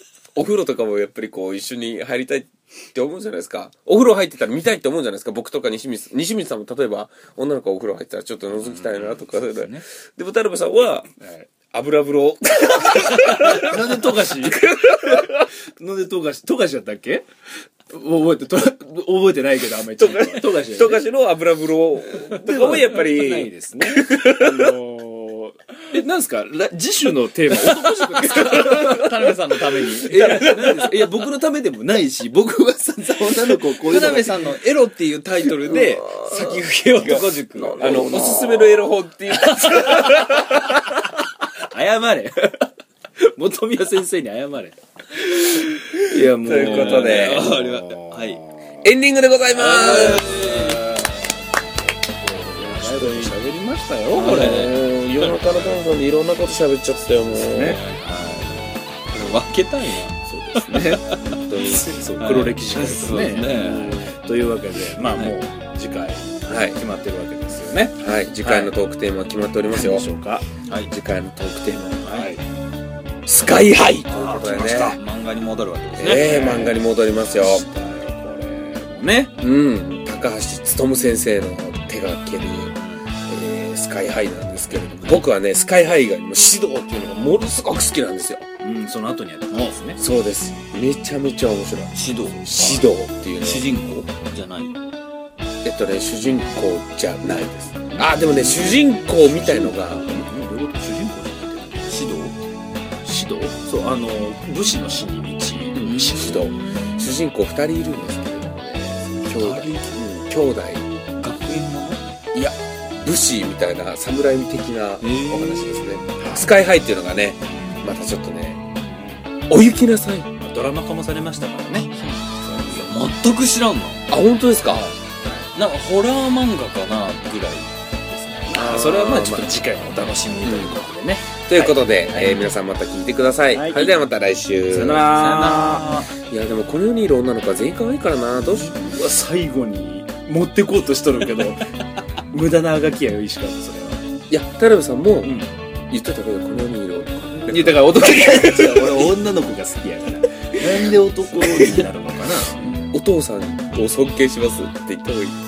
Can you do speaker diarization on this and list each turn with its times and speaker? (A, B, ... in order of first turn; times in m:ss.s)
0:00.4-0:11.1 A
0:08.9-0:09.8 B
0:11.2-0:11.5 C
0:11.7-0:15.5 A
0:13.0-0:17.2 C
0:17.9-0:21.0 C
0:20.0-0:24.8 A
0:22.1-0:34.6 C
0:27.6-0:31.0 B
0:28.3-0:29.0 A
0:33.7-0:38.1 B
0:35.8-0:40.7 A
0:37.7-0:38.9 C
0:39.5-0:42.7 C
0:39.6-0:40.1 B
0:43.2-0:48.9 C
0:46.2-0:47.6 A
0:46.4-0:48.4 B
0:48.8-0:50.6 A
0:49.5-0:51.0 B
0:49.6-0:51.4 C
0:52.2-0:54.7 C
0:52.5-0:53.4 A
0:54.1-0:54.8 B
0:54.1-0:57.8 A
0:55.2-0:55.8 C
0:57.0-0:58.8 C
0:57.6-1:01.4 B
1:00.2-1:08.7 C
1:01.5-1:01.9 A
1:02.2-1:04.1 B
1:05.1-1:05.3 B
1:06.5-1:06.8 A
1:08.0-1:10.1 A
1:09.7-1:10.5 C
1:10.7-1:10.9 B
1:10.9-1:12.3 A
1:12.0-1:12.4 C
1:13.3-1:15.0 A
1:14.1-1:15.0 C
1:14.9-1:16.8 B
1:16.0-1:17.7 A
1:16.2-1:19.4 C
1:19.4-1:22.8 A
1:22.8-1:23.1 B
1:23.3-1:28.5 A
1:28.6-1:30.0 C
1:29.5-1:29.8 B
1:30.0-1:33.8 A
1:31.9-1:34.8 B
1:35.6-1:40.1 A
1:37.9-1:38.7 B
1:38.4-1:41.9 C
1:40.8-1:42.4 B
1:43.0-1:46.5 C
1:45.8-1:50.9 A
1:45.8-1:47.1 B
1:49.4-1:50.0 B
1:51.2-1:52.0 B
1:52.3-1:58.6 A
1:55.0-1:56.1 B
1:56.2-1:56.6 C
1:58.9-1:59.3 C
1:59.5-2:00.3 A
2:00.4-2:01.9 C
2:01.7-2:04.1 B
2:02.5-2:02.9 C
2:04.1-2:04.8 A
2:04.7-2:05.5 C
2:05.5-2:08.5 B
2:08.5-2:12.5 C
2:08.5-2:09.6 A
2:10.4-2:10.8 A
2:11.5-2:15.0 A
2:13.5-2:14.0 C
2:14.7-2:16.0 C
2:14.8-2:16.1 B
2:16.3-2:19.0 A
2:18.6-2:21.7 C
2:22.3-2:24.0 C
2:24.3-2:25.4 A
2:25.2-2:25.5 C
2:25.9-2:29.1 A
2:27.5-2:32.6 C
2:31.4-2:31.8 B
2:32.6-2:32.9 B
2:32.9-2:35.4 A